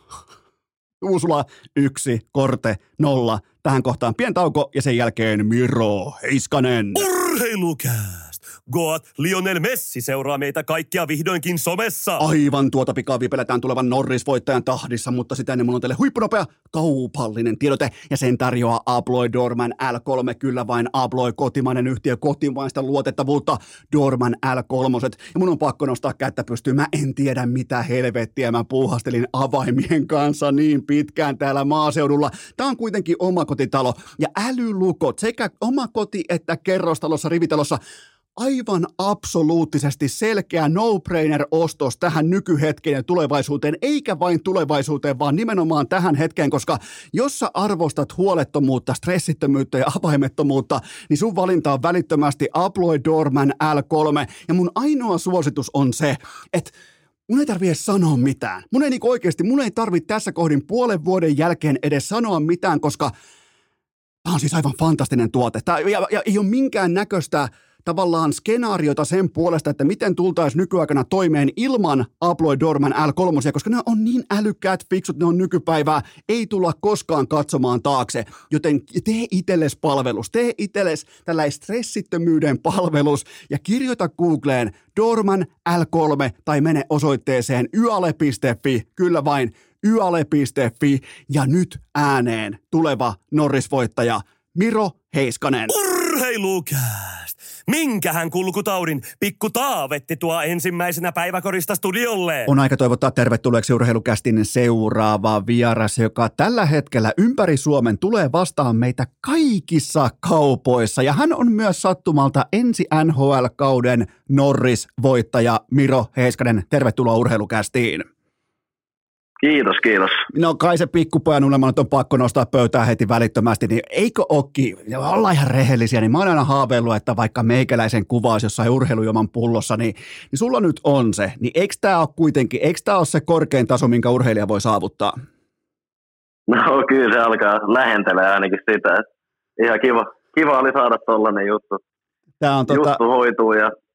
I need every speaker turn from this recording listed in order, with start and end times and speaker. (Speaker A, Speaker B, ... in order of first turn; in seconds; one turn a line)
Speaker A: 1.0-7.0
Speaker B: 6.9-12.2
Speaker A: 12.2-37.8
Speaker A: 38.4-56.7
Speaker A: 57.3-63.1
Speaker A: 64.2-95.7
Speaker B: 95.7-102.5
Speaker A: 102.5-118.1
Speaker C: 119.4-120.2
Speaker A: 120.3-135.1
Speaker C: 136.5-139.0
Speaker C: 139.6-141.8
Speaker A: 142.4-143.0
Speaker C: 142.7-143.7